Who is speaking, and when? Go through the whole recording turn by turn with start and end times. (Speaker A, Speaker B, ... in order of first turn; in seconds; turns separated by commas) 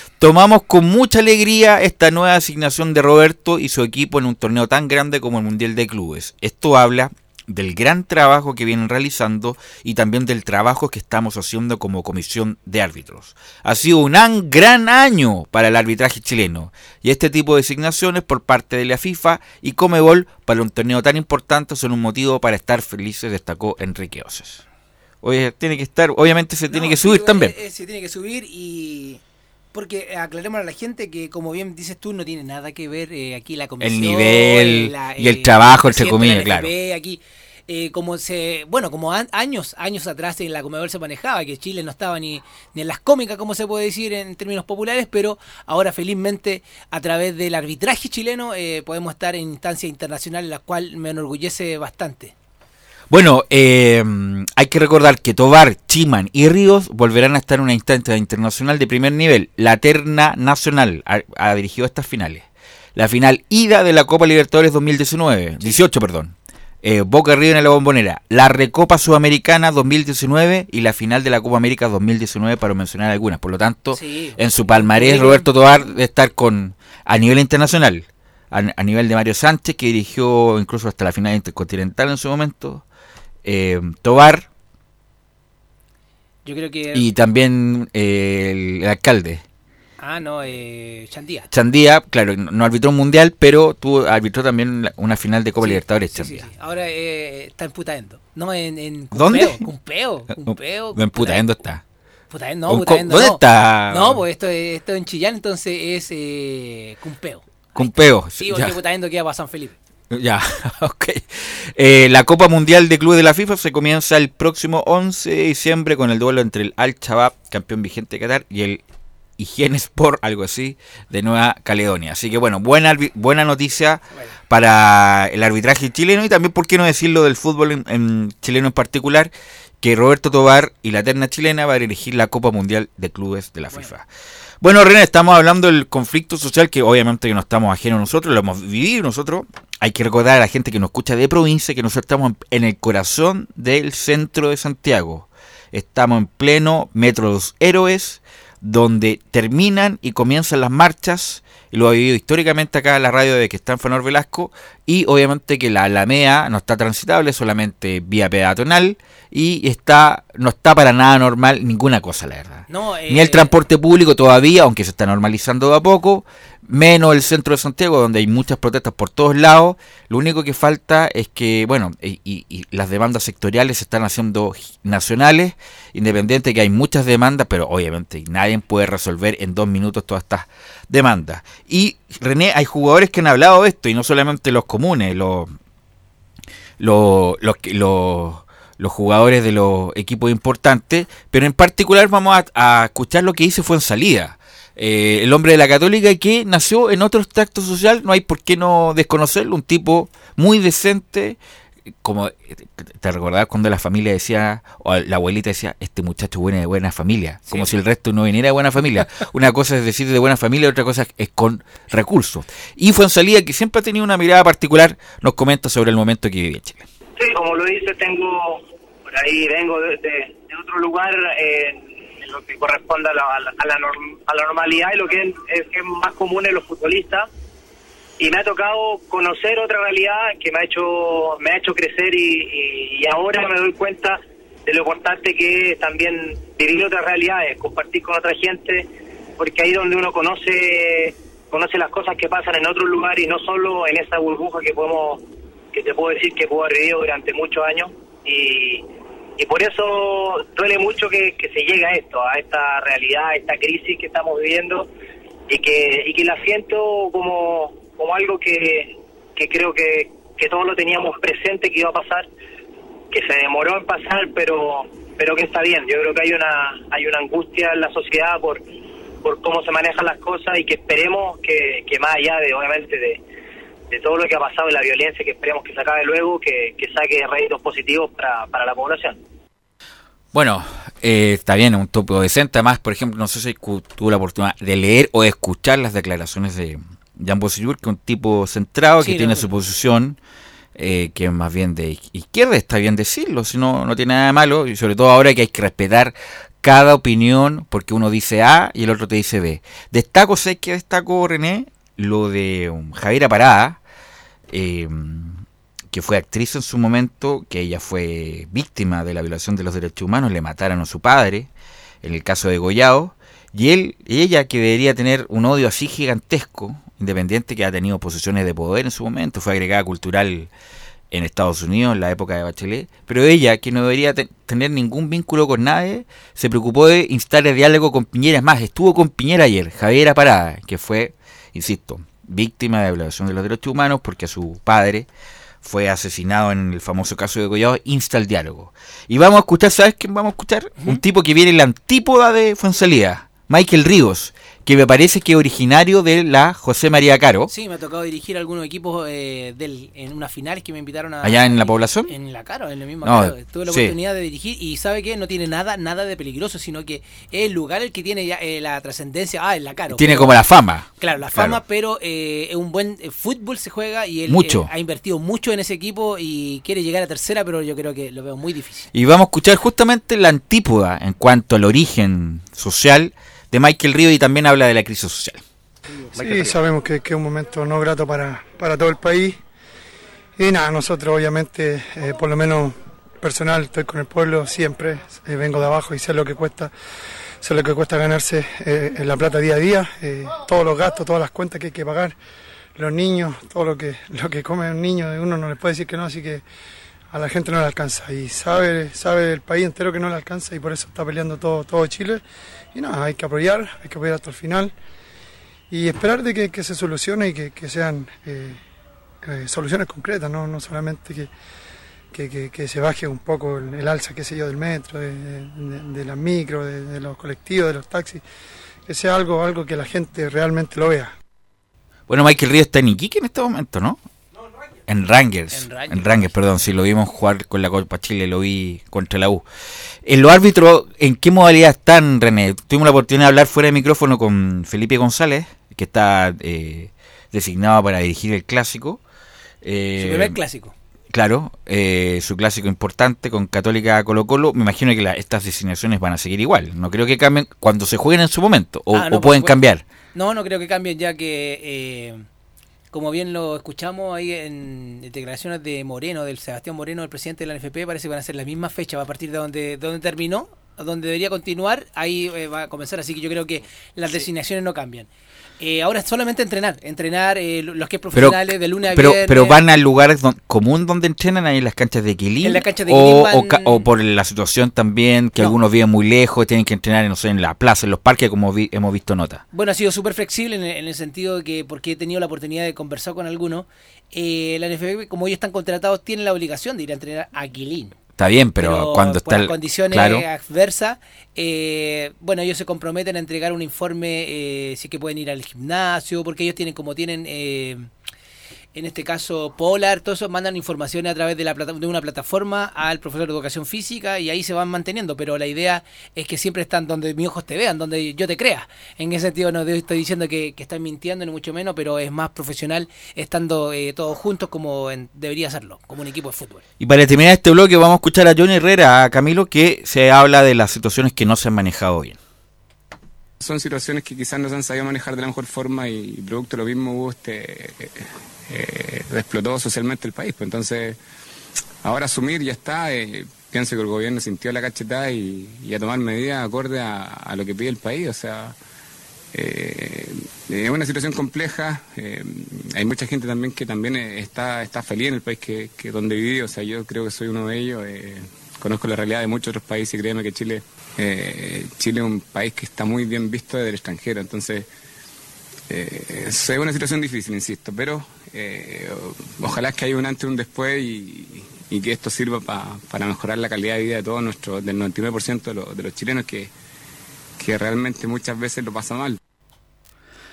Speaker A: 0.2-24.6, Speaker A: 25.2-27.6, Speaker B: 26.7-29.2, Speaker B: 29.7-52.3, Speaker A: 33.8-36.7, Speaker A: 53.1-82.8, Speaker B: 73.9-75.5, Speaker A: 83.5-84.5, Speaker B: 86.5-87.1, Speaker A: 86.9-89.4, Speaker B: 90.0-91.5, Speaker A: 91.5-96.5, Speaker B: 95.6-101.4, Speaker A: 99.1-99.7, Speaker A: 100.4-101.8, Speaker B: 102.3-109.8, Speaker A: 102.7-104.2, Speaker A: 107.8-108.8, Speaker A: 110.1-118.8, Speaker A: 119.4-134.1, Speaker A: 134.6-185.5, Speaker B: 162.7-163.5, Speaker A: 186.8-201.4, Speaker A: 202.0-216.8, Speaker C: 217.2-227.3, Speaker C: 228.2-248.9, Speaker C: 249.4-254.9, Speaker C: 255.5-262.3, Speaker C: 263.1-268.6, Speaker C: 269.2-273.2, Speaker C: 273.9-279.2, Speaker A: 280.3-290.2, Speaker B: 289.0-289.5, Speaker A: 290.8-303.8, Speaker A: 304.5-305.4, Speaker A: 305.9-311.5, Speaker A: 312.0-320.5, Speaker A: 321.1-335.1, Speaker A: 335.6-347.5, Speaker B: 347.5-360.3, Speaker A: 351.2-352.1, Speaker A: 353.0-353.9, Speaker A: 359.9-361.6, Speaker B: 361.0-368.9, Speaker A: 364.3-364.7, Speaker A: 368.9-375.4, Speaker D: 376.1-379.4, Speaker D: 380.4-386.7, Speaker D: 387.4-392.2, Speaker D: 392.8-396.4, Speaker D: 397.1-402.2, Speaker D: 402.7-404.7, Speaker D: 405.7-408.6, Speaker D: 409.2-411.3, Speaker D: 412.1-418.2, Speaker D: 418.9-421.1, Speaker A: 422.1-424.0, Speaker A: 424.9-429.4, Speaker B: 425.5-426.3, Speaker A: 430.1-439.0, Speaker A: 439.6-440.4, Speaker B: 440.0-440.7, Speaker A: 441.1-449.8, Speaker B: 448.9-449.6, Speaker B: 450.1-452.3, Speaker B: 452.9-465.1, Speaker B: 465.6-469.6, Speaker A: 468.1-479.4, Speaker B: 472.4-473.9, Speaker B: 479.5-488.0, Speaker A: 488.2-490.2, Speaker B: 488.6-497.9, Speaker B: 498.8-516.6, Speaker A: 516.8-522.2, Speaker E: 523.4-531.0, Speaker E: 531.8-538.6, Speaker E: 539.3-554.7, Speaker E: 555.7-566.5, Speaker E: 567.4-569.2